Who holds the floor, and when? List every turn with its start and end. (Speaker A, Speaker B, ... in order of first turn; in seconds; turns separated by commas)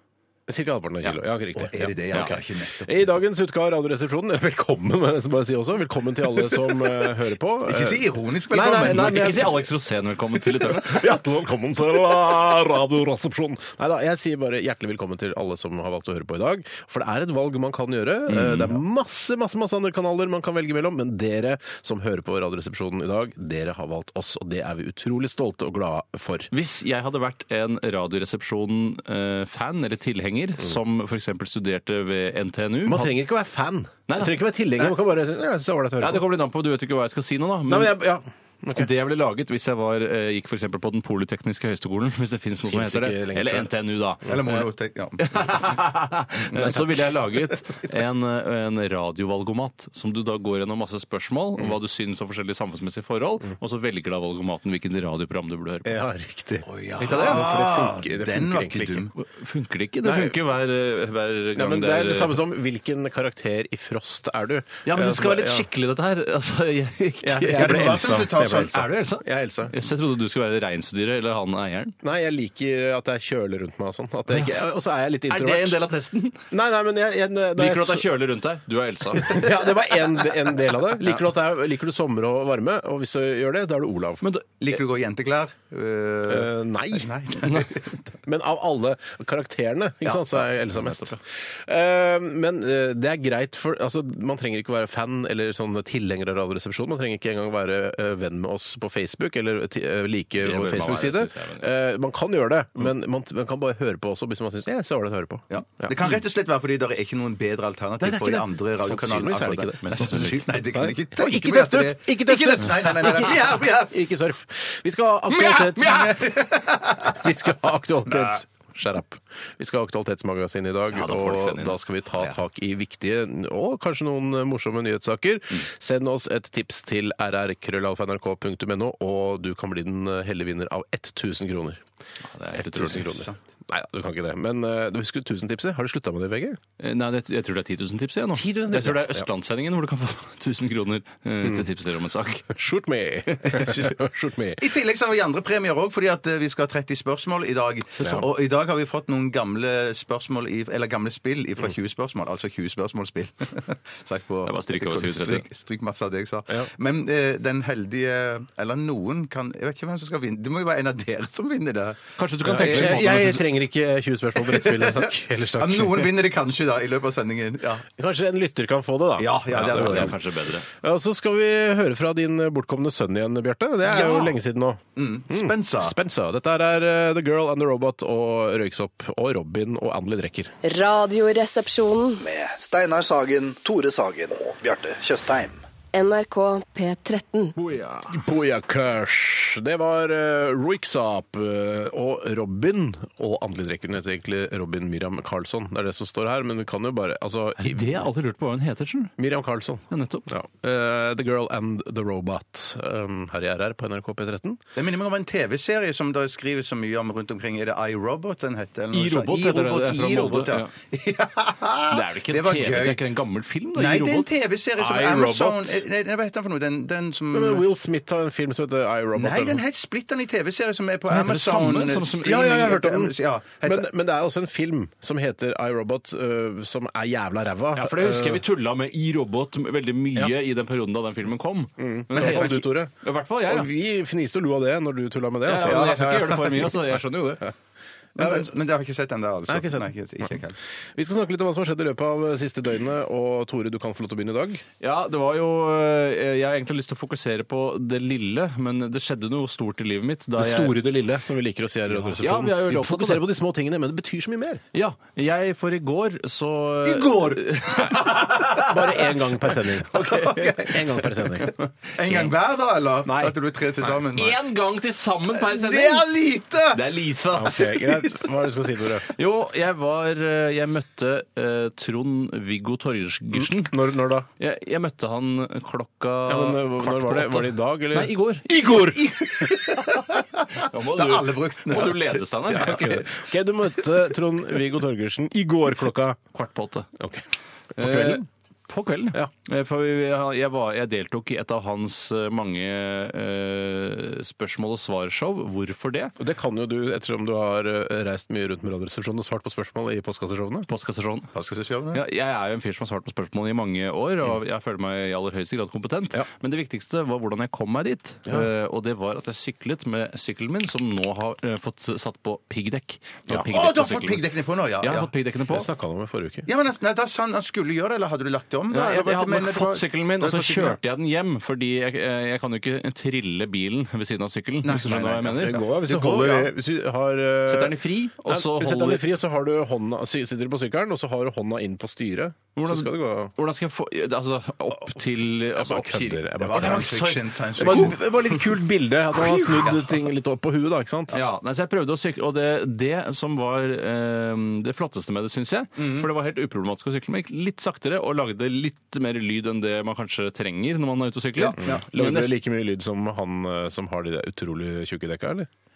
Speaker A: 0.5-9.7, Speaker B: 1.6-3.1, Speaker B: 7.7-9.5, Speaker C: 8.8-11.1, Speaker A: 10.5-26.5, Speaker C: 18.3-18.8, Speaker C: 26.5-33.1, Speaker A: 32.8-36.3, Speaker C: 34.1-34.3, Speaker C: 36.0-38.0, Speaker A: 37.7-38.9, Speaker C: 38.7-44.7, Speaker A: 42.7-43.7, Speaker B: 44.2-45.6, Speaker C: 45.2-56.0, Speaker B: 46.5-46.8, Speaker A: 55.8-59.0, Speaker B: 56.6-59.1, Speaker C: 57.0-57.4, Speaker C: 59.2-62.4, Speaker A: 60.0-60.4, Speaker A: 61.6-65.7, Speaker C: 64.9-71.9, Speaker A: 67.2-69.8, Speaker B: 67.5-68.8, Speaker A: 72.0-75.8, Speaker C: 74.3-74.6, Speaker C: 75.3-76.4, Speaker A: 76.5-78.1, Speaker C: 77.6-79.9, Speaker A: 79.1-84.2, Speaker C: 84.2-84.7, Speaker B: 84.6-88.0, Speaker A: 86.3-87.1, Speaker A: 88.2-105.9, Speaker C: 90.0-91.2, Speaker C: 100.4-101.7, Speaker B: 105.5-114.0, Speaker A: 108.0-131.8, Speaker C: 109.8-110.4, Speaker B: 115.5-117.1, Speaker C: 115.8-116.1, Speaker C: 120.9-121.8, Speaker C: 132.3-133.3, Speaker A: 132.5-136.6, Speaker C: 136.8-142.6, Speaker A: 138.3-139.3, Speaker A: 142.5-144.7, Speaker C: 143.4-143.8, Speaker B: 144.6-162.0, Speaker C: 148.0-148.2, Speaker A: 148.0-148.3, Speaker C: 154.4-155.4, Speaker C: 162.2-163.4, Speaker A: 162.4-166.1, Speaker B: 162.6-163.0, Speaker B: 164.4-167.9, Speaker A: 168.0-170.2, Speaker B: 169.2-170.2, Speaker C: 169.5-170.7, Speaker A: 170.7-180.5, Speaker B: 173.8-174.4, Speaker B: 175.0-176.0, Speaker D: 180.6-182.2, Speaker E: 182.2-185.6, Speaker D: 185.9-187.5, Speaker C: 187.6-188.2, Speaker A: 188.1-198.1, Speaker C: 197.6-199.1, Speaker A: 199.2-204.6, Speaker C: 199.9-200.3, Speaker B: 204.8-213.0, Speaker C: 208.9-210.7, Speaker C: 211.9-214.3, Speaker B: 213.8-217.7, Speaker A: 214.8-215.8, Speaker A: 217.3-219.6, Speaker B: 219.2-223.9, Speaker C: 221.1-222.4, Speaker A: 222.2-228.4, Speaker C: 227.8-233.7, Speaker A: 231.8-236.4, Speaker B: 232.2-232.6, Speaker C: 235.5-237.4, Speaker B: 235.6-236.7, Speaker B: 238.2-240.6, Speaker A: 238.2-238.5, Speaker A: 239.5-240.4, Speaker A: 240.9-244.6, Speaker C: 244.8-250.8, Speaker A: 250.4-254.6, Speaker B: 251.9-252.2, Speaker C: 252.2-253.2, Speaker C: 254.7-258.7, Speaker B: 256.9-259.1, Speaker A: 258.6-261.5, Speaker B: 259.9-261.4, Speaker C: 261.4-262.3, Speaker B: 261.9-264.4, Speaker A: 263.0-263.9, Speaker C: 264.1-266.1, Speaker B: 265.3-267.0, Speaker C: 266.7-267.8, Speaker A: 267.3-269.1, Speaker B: 267.8-268.2, Speaker C: 269.1-273.8, Speaker A: 273.3-274.3, Speaker C: 274.4-278.8, Speaker A: 276.3-279.9, Speaker B: 279.2-282.8, Speaker C: 280.5-283.0, Speaker A: 282.5-286.2, Speaker C: 286.3-286.9, Speaker A: 287.0-287.2, Speaker A: 287.8-288.2, Speaker C: 287.8-296.1, Speaker A: 296.2-300.7, Speaker C: 300.7-301.3, Speaker B: 301.3-302.0, Speaker C: 301.9-314.2, Speaker B: 313.3-315.1, Speaker C: 314.8-315.7, Speaker A: 315.5-316.5, Speaker B: 316.5-320.8, Speaker C: 318.7-325.6, Speaker B: 324.6-326.5, Speaker A: 325.4-333.3, Speaker C: 327.5-329.1, Speaker C: 332.6-337.9, Speaker A: 335.5-341.2, Speaker B: 336.4-338.6, Speaker B: 339.3-339.9, Speaker C: 341.1-352.3, Speaker B: 345.8-346.1, Speaker B: 351.4-351.8, Speaker A: 351.6-355.5